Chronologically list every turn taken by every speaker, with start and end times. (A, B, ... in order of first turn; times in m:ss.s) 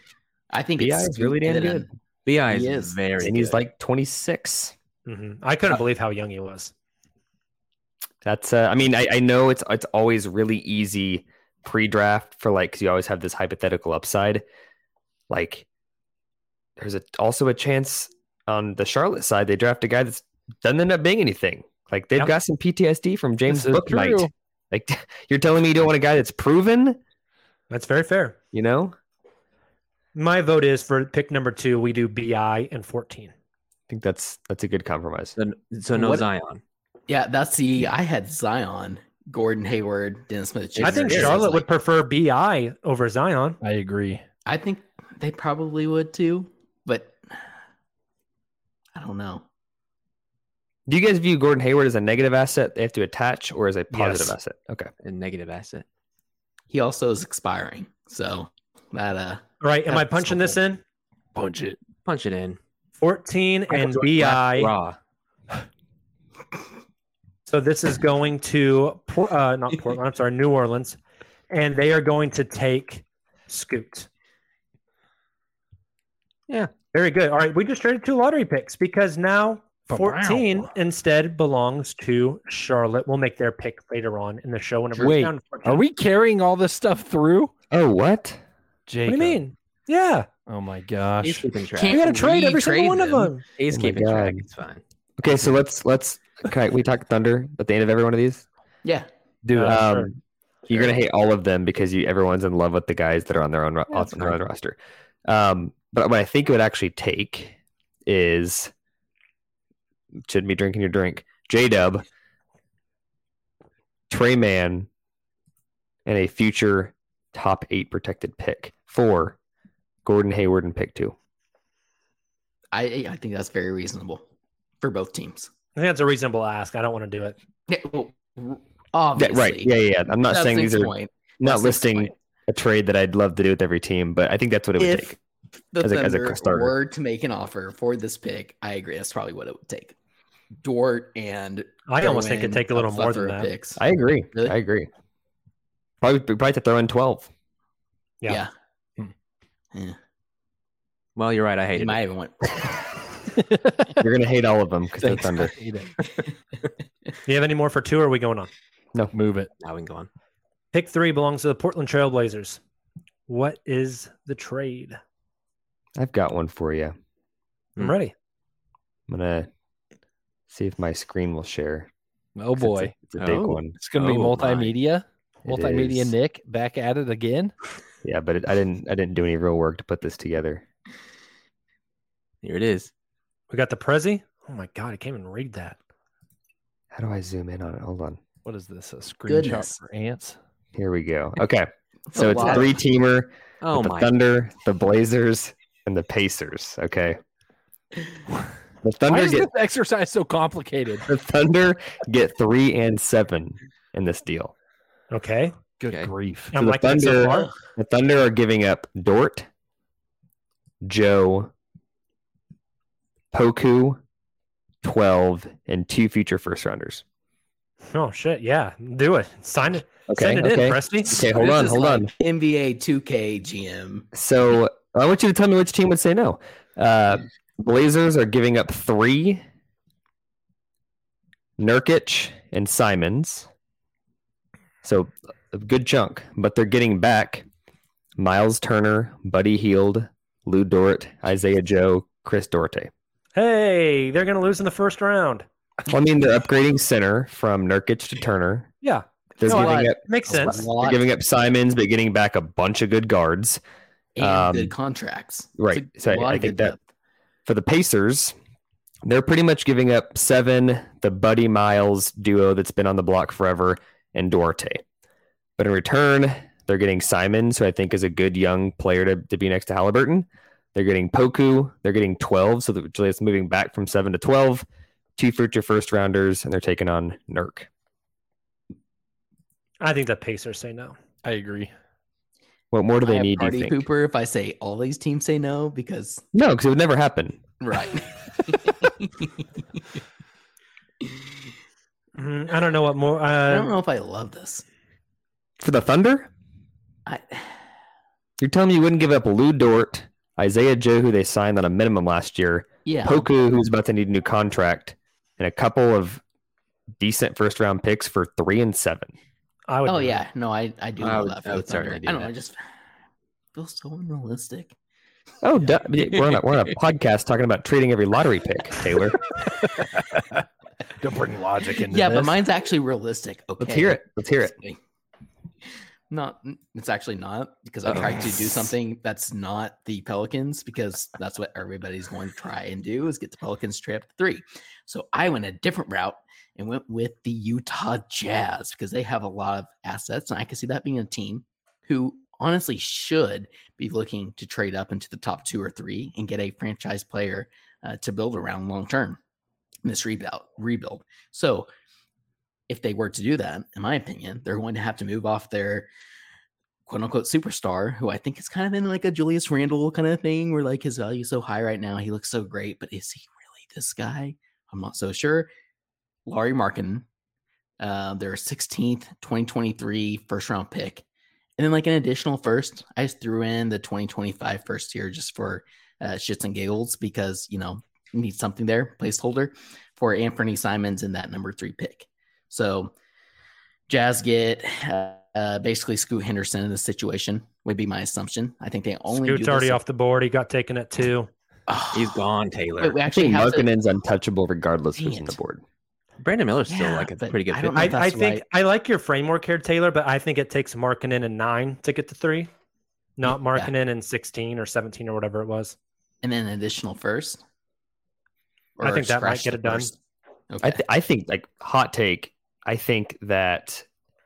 0:00.5-0:01.9 A
0:00.8-0:01.9 B
0:02.3-0:03.6 C
0:02.5-0:03.0 A
0:03.2-0:04.7 B
0:05.1-0:06.7 D
0:08.2-0:14.4 B
0:15.3-0:15.7 B
0:16.8-0:27.0 B
0:23.5-0:24.3 E
0:27.7-0:28.4 D
0:28.5-0:28.9 B
0:30.2-0:33.3 D
0:33.9-0:35.4 B
0:35.4-0:36.6 C
0:36.0-0:36.3 A
0:37.1-0:41.6 A
0:40.8-0:41.3 C
0:40.8-0:43.6 D
0:43.6-0:44.2 E
0:44.5-0:47.2 A
0:49.0-0:49.4 A
0:50.9-0:54.9 B
0:53.9-0:54.4 D
0:55.0-0:55.8 C
0:56.7-1:00.6 A
0:59.6-1:00.8 D
1:01.4-1:01.8 E
1:02.1-1:02.6 C
1:03.0-1:04.7 D
1:03.7-1:05.0 C
1:07.5-1:11.0 D
1:11.5-1:14.1 D
1:16.9-1:25.8 D
1:19.9-1:20.7 E
1:25.0-1:27.5 E
1:27.7-1:28.4 B
1:28.9-1:29.4 E
1:29.1-1:30.3 D
1:30.5-1:31.5 E
1:31.2-1:32.0 C
1:31.8-1:33.3 A
1:31.9-1:33.4 D
1:33.6-1:34.8 C
1:33.7-1:34.4 B
1:35.2-1:38.4 B
1:39.4-1:40.2 B
1:39.5-1:40.1 D
1:40.7-1:47.6 B
1:44.0-1:44.4 C
1:48.1-1:48.7 B
1:50.3-1:52.0 B
1:54.1-1:54.9 B
1:56.1-1:59.4 B
2:00.0-2:01.2 B
2:02.7-2:04.3 A
2:04.8-2:05.5 A
2:05.8-2:07.4 D
2:07.7-2:09.7 A
2:09.2-2:15.2 B
2:10.3-2:12.1 A
2:14.8-2:15.2 A
2:15.7-2:20.0 A
2:15.8-2:16.7 B
2:20.6-2:24.6 A
2:21.9-2:23.5 D
2:23.8-2:24.9 B
2:26.0-2:27.3 B
2:31.2-2:32.0 C
2:31.8-2:32.5 A
2:34.0-2:35.5 B
2:35.0-2:36.0 E
2:37.3-2:38.5 D
2:39.1-2:39.5 E
2:39.6-2:40.1 C
2:40.7-2:42.6 D
2:43.3-2:45.0 D
2:46.0-2:46.9 B
2:47.8-2:48.1 D
2:49.1-2:49.5 B
2:50.5-2:51.9 B
2:52.4-2:53.0 E
2:52.6-2:53.8 B
2:53.2-2:54.8 C
2:53.8-2:57.5 E
2:55.5-2:56.1 B
2:58.0-3:00.6 B
3:02.4-3:02.9 C
3:03.5-3:05.8 D
3:06.9-3:08.2 B
3:08.4-3:10.4 E
3:09.3-3:09.8 A
3:10.8-3:17.2 B
3:12.1-3:12.8 A
3:13.6-3:14.1 C
3:18.8-3:19.5 B
3:19.1-3:21.1 E
3:21.1-3:24.5 B
3:25.1-3:25.6 D
3:25.8-3:26.5 E
3:26.5-3:27.5 D
3:26.6-3:29.5 B
3:30.8-3:31.5 B
3:33.3-3:34.0 B
3:34.8-3:37.0 B
3:37.9-3:41.2 D
3:40.1-3:42.1 B
3:41.1-3:44.1 A
3:44.1-3:49.4 B
3:51.6-3:53.5 B
3:54.8-3:57.5 B
3:58.2-4:02.9 B
4:03.4-4:05.5 D
4:05.9-4:08.7 B
4:08.8-4:10.6 D
4:09.4-4:11.0 A
4:09.4-4:13.6 B
4:14.2-4:16.8 A
4:14.2-4:14.8 B
4:15.6-4:16.8 B
4:17.5-4:18.4 B
4:19.0-4:24.8 B
4:25.6-4:34.6 B
4:35.2-4:37.7 B
4:39.8-4:41.0 D
4:41.2-4:41.7 E
4:42.7-4:43.8 B
4:43.0-4:46.2 A
4:46.3-4:47.4 B
4:47.6-4:49.4 A
4:52.2-4:53.8 D
4:53.5-4:54.6 A
4:55.6-4:56.3 B
4:57.1-4:57.5 A
4:58.4-5:06.2 B
5:02.8-5:03.3 A
5:07.0-5:09.1 B
5:09.7-5:10.2 D
5:09.9-5:12.6 A
5:11.0-5:12.3 C
5:13.6-5:14.7 A
5:15.4-5:19.2 B
5:20.1-5:20.4 E
5:21.0-5:22.4 E
5:21.9-5:24.8 A
5:23.6-5:24.5 B
5:26.1-5:49.2 A
5:49.8-5:51.7 A
5:52.7-5:55.9 A
5:56.9-6:05.5 A
6:06.3-6:07.1 A
6:07.8-6:11.0 A
6:11.6-6:22.9 A
6:23.9-6:29.8 A
6:29.1-6:31.3 D
6:31.7-6:32.2 A
6:31.9-6:33.0 C
6:32.8-6:33.7 A
6:33.1-6:35.6 B
6:35.0-6:35.4 A
6:36.2-6:38.0 C
6:36.7-6:38.4 A
6:37.8-6:42.5 D
6:43.2-6:45.8 D
6:46.2-6:47.4 A
6:48.8-6:50.0 A
6:48.8-6:49.9 D
6:50.5-6:50.8 A
6:50.6-6:53.8 B